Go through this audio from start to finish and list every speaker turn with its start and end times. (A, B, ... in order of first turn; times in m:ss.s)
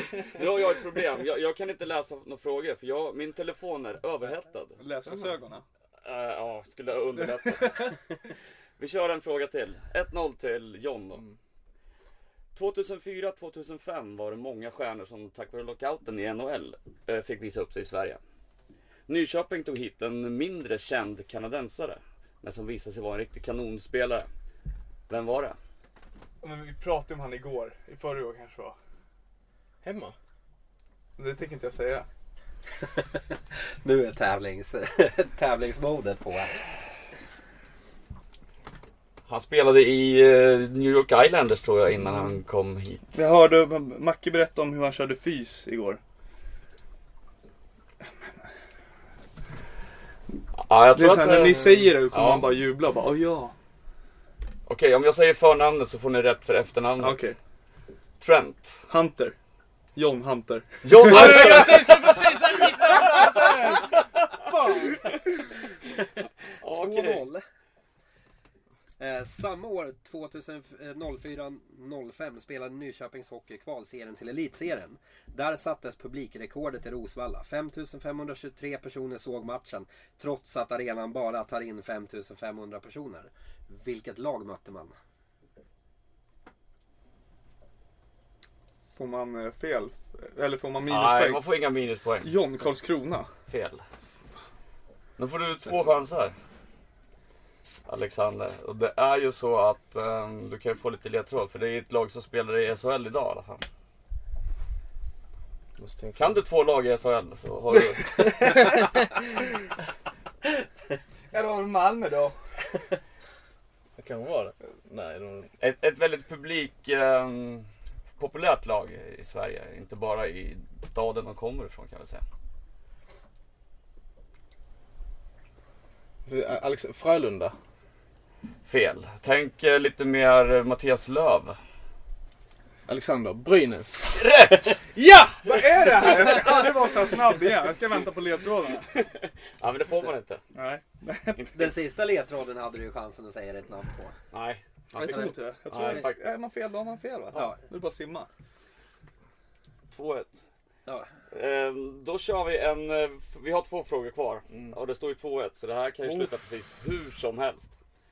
0:00.2-0:04.8 A
0:04.8-0:05.6 B
0:06.0-0:08.0 A
0:08.8-0:11.2 A
0:12.5-0:18.2 A
0:19.1-0:24.3 A
0:25.1-0:25.6 A
0:26.4-0:28.7 B
0:29.8-0:30.1 C
0:31.2-0:32.0 B
0:33.8-0:36.6 D
0:39.3-0:43.2 A
0:43.1-0:46.0 B
0:50.6-0:52.6 A
0:50.9-0:53.5 B
0:54.7-0:57.2 A
0:57.0-0:57.4 B
0:58.2-0:58.8 A
0:58.9-0:59.3 B
0:59.9-1:01.5 B
1:00.8-1:04.2 A
1:01.0-1:03.9 C
1:04.5-1:04.9 C
1:06.6-1:07.2 A
1:06.6-1:07.4 D
1:09.0-1:24.9 D
1:28.9-1:31.4 B
1:30.8-1:32.3 A
1:32.2-1:33.3 B
1:33.5-1:33.8 A
1:35.2-1:36.3 A
1:37.9-1:43.6 A
1:45.8-1:46.4 C
1:46.2-1:48.4 A
1:48.2-1:49.1 C
1:51.3-1:52.3 B
1:54.0-1:55.5 C
1:55.6-2:02.2 A
2:06.2-2:07.5 C
2:08.6-2:11.6 A
2:12.9-2:14.2 C
2:14.1-2:14.8 A
2:15.0-2:15.4 C
2:15.4-2:18.9 B
2:16.3-2:16.5 C
2:18.9-2:20.4 A
2:20.5-2:21.6 B
2:21.5-2:24.2 D
2:24.3-2:26.3 A
2:25.0-2:28.3 B
2:27.3-2:27.6 D
2:29.9-2:30.4 A
2:31.3-2:37.7 A
2:34.5-2:34.8 C